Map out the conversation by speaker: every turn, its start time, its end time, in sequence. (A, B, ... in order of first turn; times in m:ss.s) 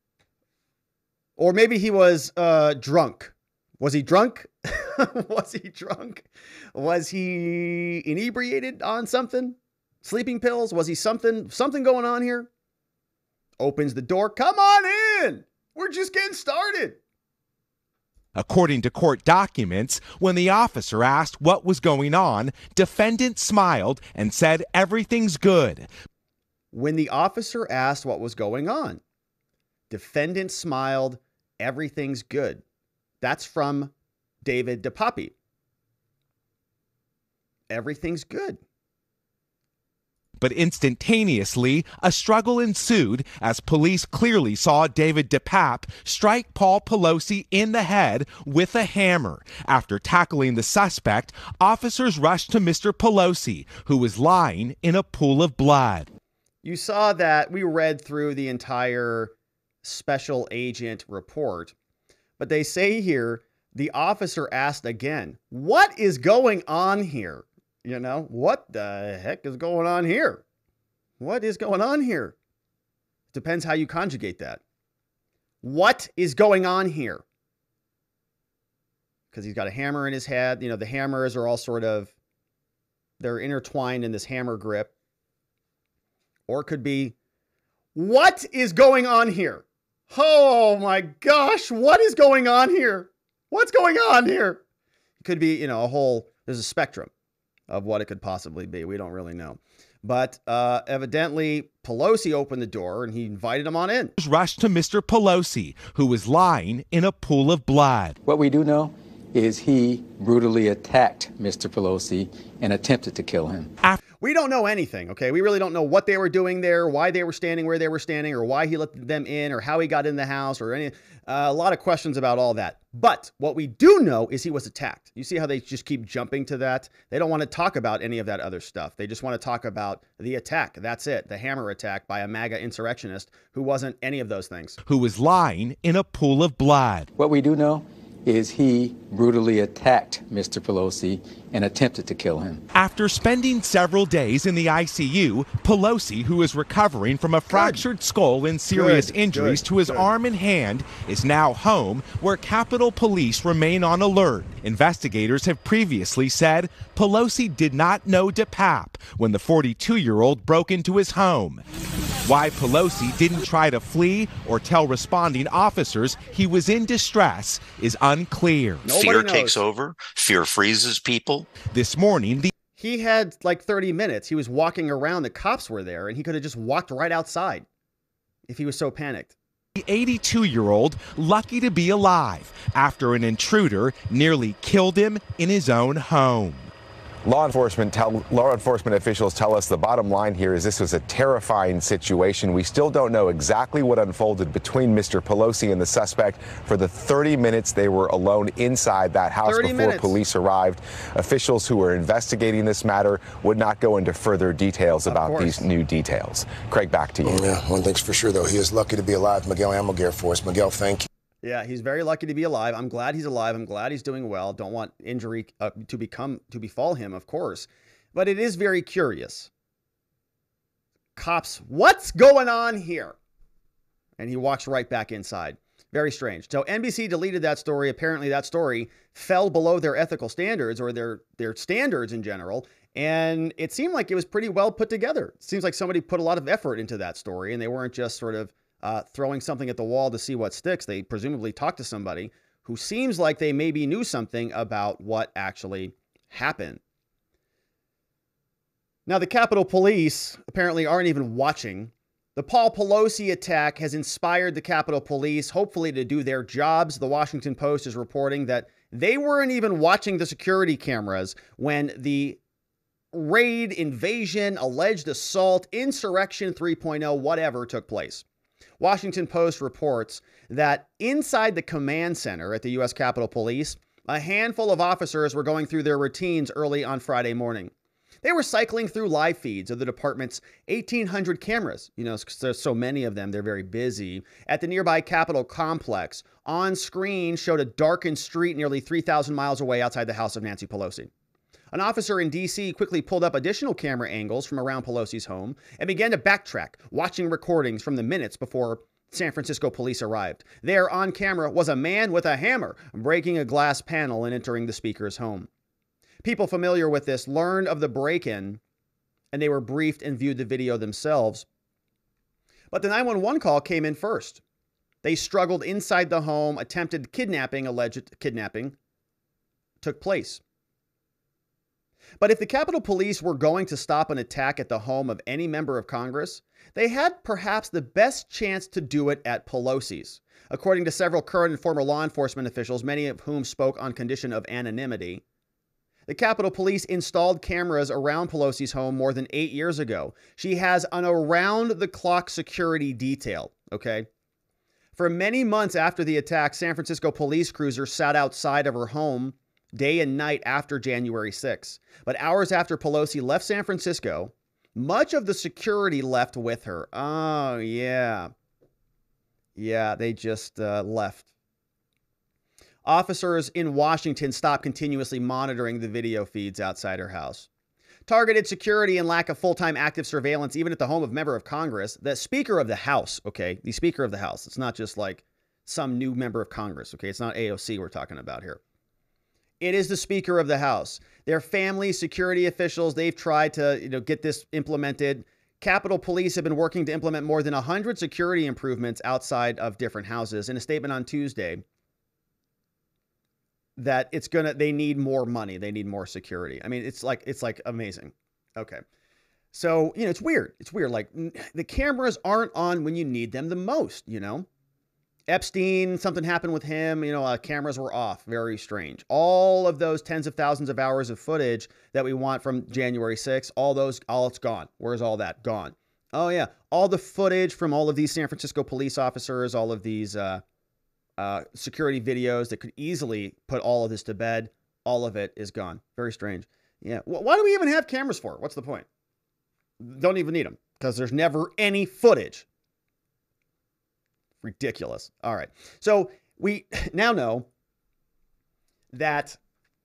0:01.4-0:12.5 A
0:13.6-0:17.0 A
0:18.4-0:25.9 B
0:26.7-0:29.0 A
0:29.9-0:32.6 A
0:33.2-0:35.3 A
0:37.7-0:38.6 A
0:40.4-0:56.1 B
0:56.6-1:01.8 A
1:02.4-1:10.4 A
1:11.2-1:12.4 A
1:13.3-1:14.6 A
1:15.6-1:17.2 A
1:19.3-1:22.1 A
1:23.2-1:24.9 A
1:26.5-1:27.2 A
1:28.0-1:34.6 A
1:35.2-1:37.1 A
1:37.7-1:44.1 A
1:44.2-1:48.2 B
1:48.3-1:53.7 C
1:54.2-2:14.8 A
2:14.9-2:17.1 B
2:17.2-2:22.6 C
2:22.7-2:41.6 B
2:27.5-2:27.9 A
2:28.7-2:30.1 A
2:42.3-2:48.9 B
2:48.8-2:49.6 A
2:48.9-2:51.6 D
2:51.6-2:52.5 B
2:52.8-2:57.7 A
2:58.5-2:59.4 A
2:59.8-3:06.7 B
3:07.2-3:27.6 E
3:19.4-3:20.2 A
3:25.1-3:25.7 A
3:27.2-3:31.1 F
3:31.4-3:39.5 A
3:41.2-3:43.2 A
3:44.2-4:06.8 A
4:09.1-4:22.4 A
4:23.1-4:28.2 A
4:28.8-4:37.7 A
4:38.2-4:51.1 A
4:51.7-5:05.5 A
5:06.2-5:08.6 A
5:09.3-5:11.5 A
5:12.7-5:14.4 A
5:15.0-5:18.8 A
5:19.8-5:20.4 A
5:22.2-5:35.2 A
5:36.1-5:44.1 A
5:45.0-5:58.3 A
5:59.6-6:01.3 A
6:02.8-6:07.5 A
6:08.1-6:18.6 A
6:19.6-6:31.6 A
6:33.8-6:38.8 A
6:39.5-6:44.5 A
6:45.3-7:00.4 A
7:01.2-7:08.9 A
7:09.8-7:12.5 A
7:14.4-7:17.5 A
7:18.9-7:19.4 A